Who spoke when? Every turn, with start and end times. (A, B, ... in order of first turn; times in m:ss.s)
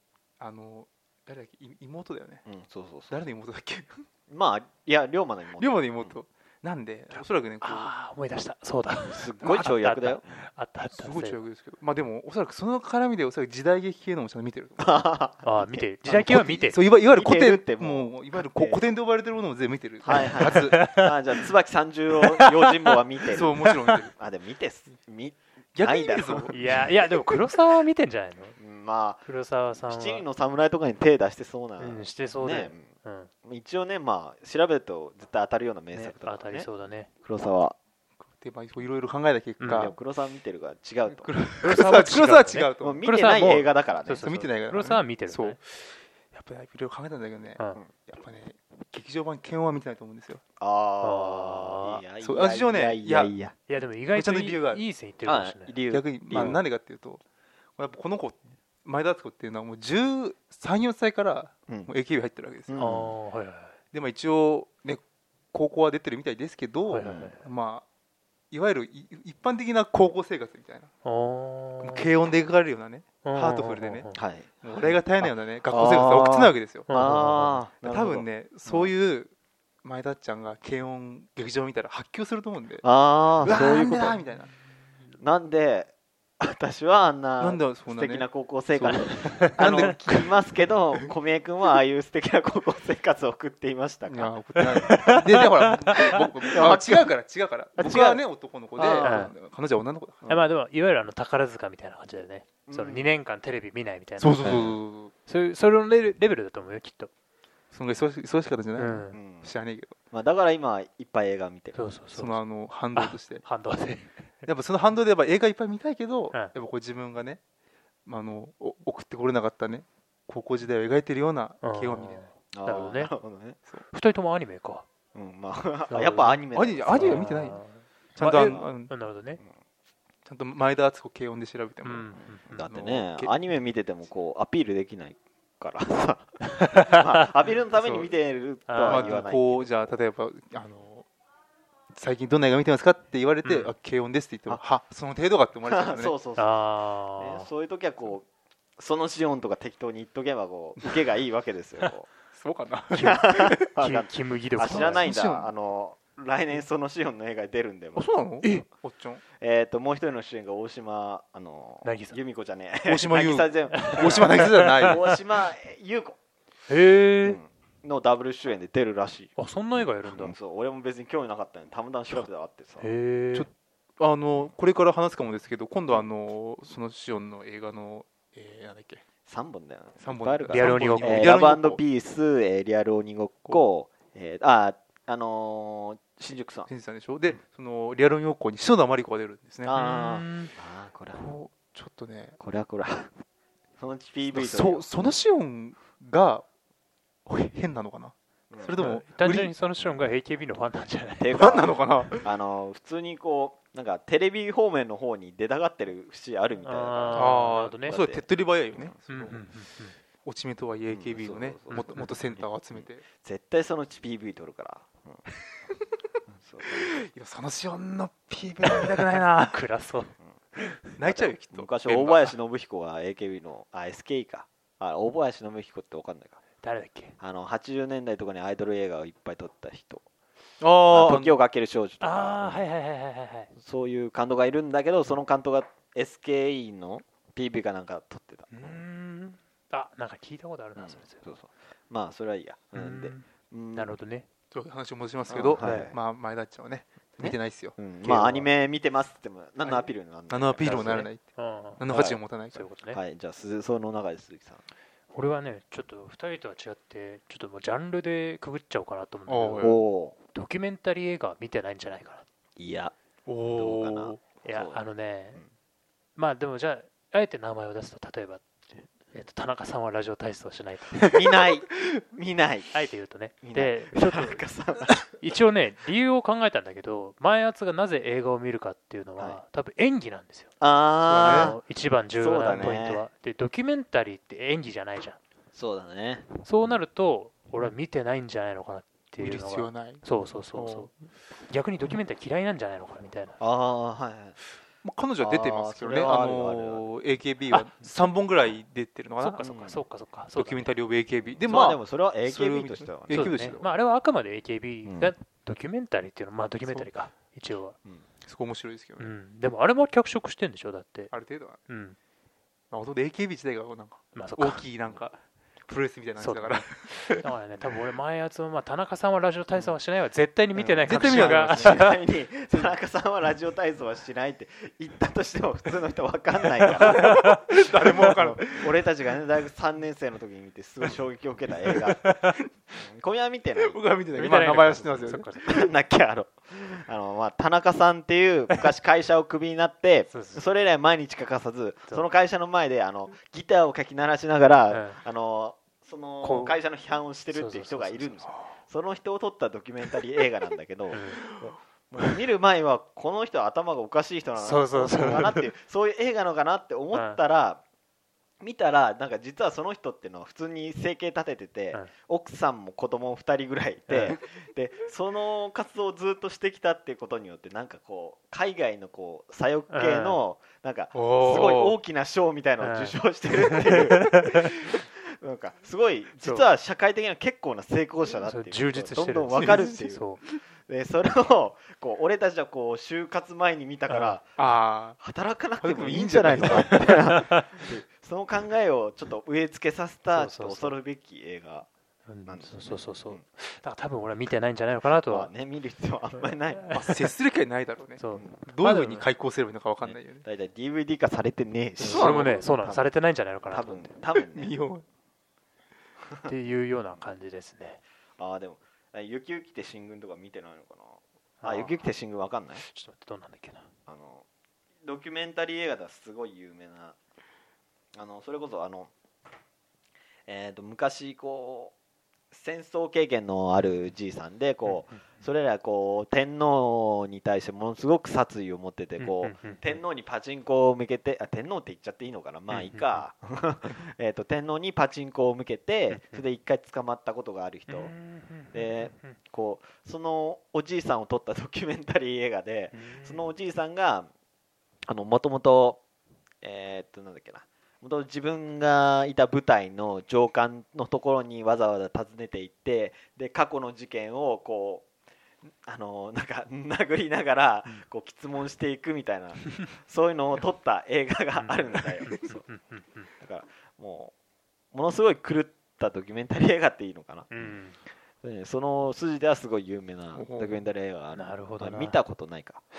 0:00.4-0:02.4 A
0:02.4-0:03.2 B
0:03.1-0:04.0 A
0:04.3-0:06.2 B
0:05.6-0:07.9 A
0:07.1-0:11.4 C
0:09.0-0:10.4 B
0:10.8-0:14.9 A
0:14.8-0:16.4 B
0:15.4-0:16.8 C
0:16.1-0:20.8 A
0:17.1-0:18.8 B
0:20.0-0:26.8 B
0:20.1-0:21.1 C
0:22.2-0:22.9 C
0:23.3-0:24.1 A
0:25.7-0:26.7 A
0:26.5-0:28.6 C
0:28.6-0:29.2 B
0:29.2-0:30.2 C
0:29.9-0:32.9 B
0:31.8-0:33.3 C
0:33.4-0:36.7 B
0:35.9-0:37.1 C
0:37.2-0:37.8 B
0:38.3-0:40.0 A
0:39.6-0:39.9 C
0:39.7-0:41.3 B
0:41.2-0:43.0 A
0:41.6-0:45.6 C
0:42.8-0:44.2 B
0:44.2-0:50.4 A
0:50.6-0:53.5 B
0:51.0-0:52.0 C
0:52.2-0:53.4 A
0:53.7-0:55.8 C
0:54.1-0:54.8 A
0:55.2-0:56.6 B
0:55.9-0:57.2 A
0:56.3-0:56.6 C
0:57.8-1:02.8 A
1:02.7-1:03.1 B
1:02.8-1:03.8 C
1:03.9-1:05.0 A
1:05.5-1:07.9 A
1:06.9-1:07.4 C
1:07.0-1:07.4 B
1:08.5-1:10.9 A
1:11.0-1:12.1 C
1:11.8-1:14.1 A
1:13.2-1:14.2 C
1:14.1-1:18.9 B
1:14.6-1:16.9 A
1:16.9-1:17.6 C
1:17.7-1:19.3 A
1:19.8-1:22.8 A
1:22.8-1:24.2 B
1:23.4-1:24.5 A
1:25.2-1:34.4 B
1:27.4-1:30.3 A
1:29.3-1:30.0 C
1:34.1-1:40.4 A
1:34.6-1:36.6 C
1:36.5-1:37.1 B
1:37.8-1:38.2 B
1:38.8-1:39.3 C
1:38.8-1:39.3 B
1:40.2-1:44.8 C
1:42.7-1:43.1 B
1:44.2-1:45.1 A
1:44.4-1:44.8 B
1:45.2-1:47.1 C
1:47.7-1:50.0 A
1:48.8-1:49.2 C
1:49.1-1:49.5 B
1:50.1-1:51.8 B
1:51.7-1:52.4 C
1:52.2-1:53.4 A
1:53.0-1:54.3 C
1:54.4-1:57.4 A
1:58.1-2:02.3 A
2:01.6-2:03.1 C
2:02.5-2:03.6 B
2:03.9-2:04.8 C
2:05.1-2:07.3 B
2:05.9-2:06.4 C
2:06.5-2:07.6 A
2:06.9-2:09.4 C
2:08.2-2:08.9 A
2:08.4-2:08.7 B
2:10.2-2:13.3 A
2:11.8-2:12.5 C
2:12.2-2:20.0 B
2:16.6-2:17.3 C
2:17.8-2:18.1 A
2:18.7-2:19.2 C
2:18.8-2:21.1 A
2:21.9-2:26.1 A
2:23.4-2:23.7 C
2:25.7-2:26.5 B
2:26.4-2:27.5 C
2:27.2-2:28.3 B
2:28.8-2:32.1 B
2:32.3-2:33.6 A
2:32.9-2:38.1 B
2:33.8-2:35.1 C
2:34.7-2:35.5 A
2:38.0-2:39.2 A
2:39.4-2:46.2 B
2:41.8-2:42.2 C
2:42.9-2:45.1 A
2:43.7-2:45.0 C
2:46.7-2:47.4 C
2:47.2-2:49.3 B
2:49.4-2:50.4 C
2:50.0-2:52.9 B
2:52.8-2:53.5 C
2:53.3-2:59.0 A
2:59.2-3:06.7 B
3:00.0-3:01.8 A
3:00.5-3:01.3 C
3:06.7-3:09.7 A
3:09.6-3:11.2 B
3:09.7-3:10.5 C
3:11.1-3:12.4 A
3:12.4-3:13.1 B
3:13.8-3:14.9 B
3:14.3-3:16.4 A
3:17.2-3:19.5 A
3:18.5-3:19.0 B
3:18.8-3:21.6 C
3:21.2-3:29.0 B
3:21.4-3:22.2 A
3:26.6-3:28.0 C
3:27.1-3:29.4 A
3:29.1-3:30.0 C
3:30.2-3:33.0 A
3:30.9-3:35.2 B
3:31.7-3:32.2 C
3:36.3-3:36.9 B
3:36.8-3:39.6 A
3:38.7-3:40.8 C
3:41.0-3:42.3 A
3:41.0-3:46.4 B
3:46.6-3:47.2 C
3:47.2-3:50.0 B
3:50.6-3:51.4 A
3:50.9-3:52.6 B
3:52.0-3:53.5 C
3:53.6-3:58.8 B
3:58.5-4:01.2 C
4:00.8-4:04.0 B
4:02.8-4:04.3 C
4:04.5-4:08.5 A
4:05.3-4:06.0 B
4:05.5-4:05.9 C
4:07.2-4:11.1 B
4:09.6-4:11.3 A
4:10.6-4:11.8 C
4:11.8-4:12.7 A
4:11.9-4:12.2 B
4:12.5-4:13.0 C
4:12.8-4:14.6 B
4:15.1-4:22.2 C
4:19.3-4:19.8 A
4:19.6-4:20.2 B
4:22.6-4:22.9 B
4:23.3-4:24.2 A
4:23.5-4:24.8 B
4:24.4-4:25.4 C
4:26.2-4:31.4 C
4:31.1-4:32.7 B
4:32.7-4:40.5 C
4:33.4-4:35.0 B
4:40.6-4:41.6 B
4:41.1-4:41.6 A
4:41.2-4:45.2 C
4:42.2-4:43.0 B
4:45.5-4:46.3 B
4:46.4-4:53.4 C
4:49.2-4:50.9 A
4:53.4-4:54.4 B
4:54.8-4:59.4 A
4:55.2-4:56.8 B
4:59.2-5:00.7 C
4:59.4-4:59.8 B
5:00.3-5:03.7 A
5:01.5-5:03.4 B
5:03.1-5:07.8 C
5:04.9-5:05.1 B
5:08.2-5:09.1 A
5:09.0-5:11.1 C
5:11.1-5:11.6 A
5:11.7-5:12.0 C
5:12.7-5:17.2 A
5:14.1-5:14.6 C
5:16.2-5:21.9 C
5:20.6-5:27.3 B
5:20.8-5:21.8 A
5:26.8-5:28.8 A
5:26.9-5:27.4 C
5:27.8-5:32.2 B
5:31.7-5:32.2 A
5:32.8-5:33.8 B
5:33.6-5:35.3 A
5:34.2-5:35.6 C
5:34.8-5:57.6 B
5:40.1-5:40.5 C
5:44.7-5:45.0 C
5:46.2-5:46.6 C
5:47.3-5:48.3 C
5:50.9-5:51.2 C
5:54.4-5:55.5 C
5:56.9-5:57.2 C
5:58.4-6:20.1 B
6:03.9-6:04.2 C
6:09.7-6:10.2 C
6:10.9-6:11.8 A
6:12.6-6:14.6 C
6:16.2-6:16.4 C
6:18.2-6:20.2 C
6:19.4-6:19.6 A
6:20.6-6:31.7 B
6:23.9-6:24.2 C
6:24.4-6:25.0 A
6:25.6-6:27.2 A
6:26.9-6:27.4 C
6:30.1-6:30.8 C
6:32.1-6:35.3 C
6:32.3-6:33.2 B
6:35.1-6:36.7 B
6:36.5-6:37.0 C
6:36.7-6:40.2 A
6:38.0-6:39.0 C
6:39.8-6:42.9 B
6:41.8-6:43.9 C
6:41.8-6:42.4 A
6:43.5-6:44.6 B
6:44.1-6:44.8 A
6:46.3-6:47.8 C
6:48.2-6:52.6 B
6:51.4-6:51.9 C
6:52.6-6:53.6 C
6:53.9-6:54.2 B
6:54.8-6:57.0 B
6:57.9-6:58.9 B
7:00.3-7:01.8 B
7:02.3-7:17.9 B
7:04.6-7:05.0 C
7:09.0-7:09.6 C
7:12.5-7:13.0 C
7:15.9-7:16.2 C
7:17.7-7:19.2 C
7:18.5-7:24.1 B
7:22.7-7:23.3 C
7:24.9-7:25.8 B
7:26.4-7:34.9 B
7:35.6-7:42.4 B
7:41.4-7:43.1 C
7:43.2-7:44.1 B
7:44.7-7:47.5 B
7:47.3-7:47.8 C
7:48.2-7:52.6 B
7:50.1-7:50.6 A
7:51.1-7:52.0 C